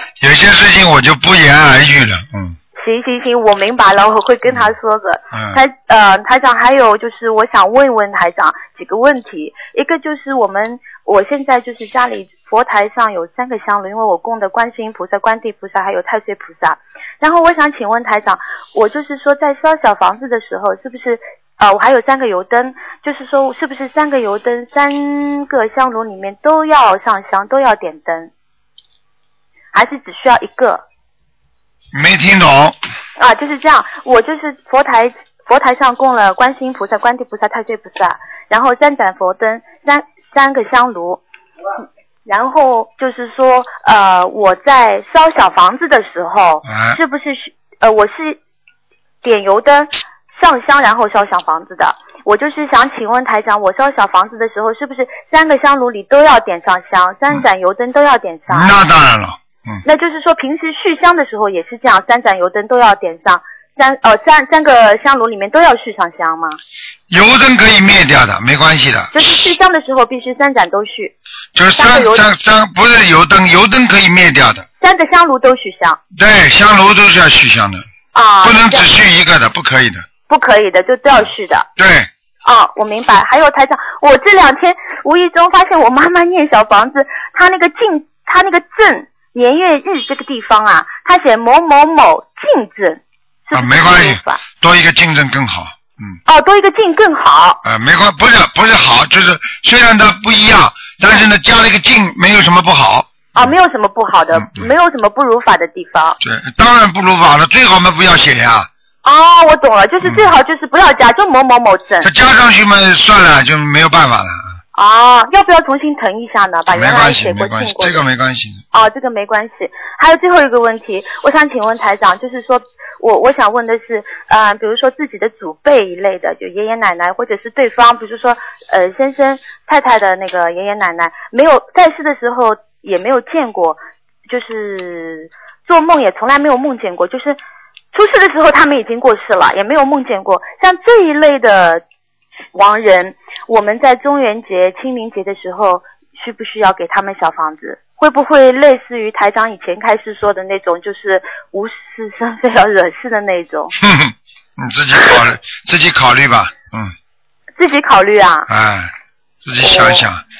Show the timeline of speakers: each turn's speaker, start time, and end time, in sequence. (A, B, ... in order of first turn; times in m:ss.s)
0:00.2-0:02.6 A
0:02.8-0:28.3 B
0:05.3-0:05.6 A
0:29.7-0:30.8 B
0:31.9-0:32.8 A
0:33.2-0:41.2 B
0:42.2-0:48.4 B
0:46.6-0:47.0 A
0:49.2-0:58.7 B
0:58.5-0:59.8 A
0:59.8-1:06.6 B
1:07.1-1:09.2 A
1:09.1-1:11.1 B
1:11.5-1:14.6 A
1:11.7-1:12.2 B
1:14.8-1:16.0 B
1:16.2-1:17.8 A
1:18.1-1:18.9 B
1:18.4-1:20.0 A
1:20.3-1:21.7 B
1:21.8-1:22.1 A
1:22.4-1:34.4 B
1:33.5-1:36.2 A
1:36.3-1:37.6 B
1:37.6-1:43.1 A
1:43.3-1:46.2 B
1:44.4-1:44.7 A
1:46.2-1:48.7 A
1:49.0-1:52.1 B
1:50.0-1:50.3 A
1:52.0-1:54.5 A
1:54.7-1:58.0 B
1:56.7-1:58.6 A
1:58.7-2:17.4 B
2:17.9-2:21.8 B
2:22.5-2:33.7 B
2:33.8-2:36.9 A
2:37.6-2:38.5 B
2:38.5-2:38.9 A
2:39.4-2:40.2 A
2:39.6-2:40.0 B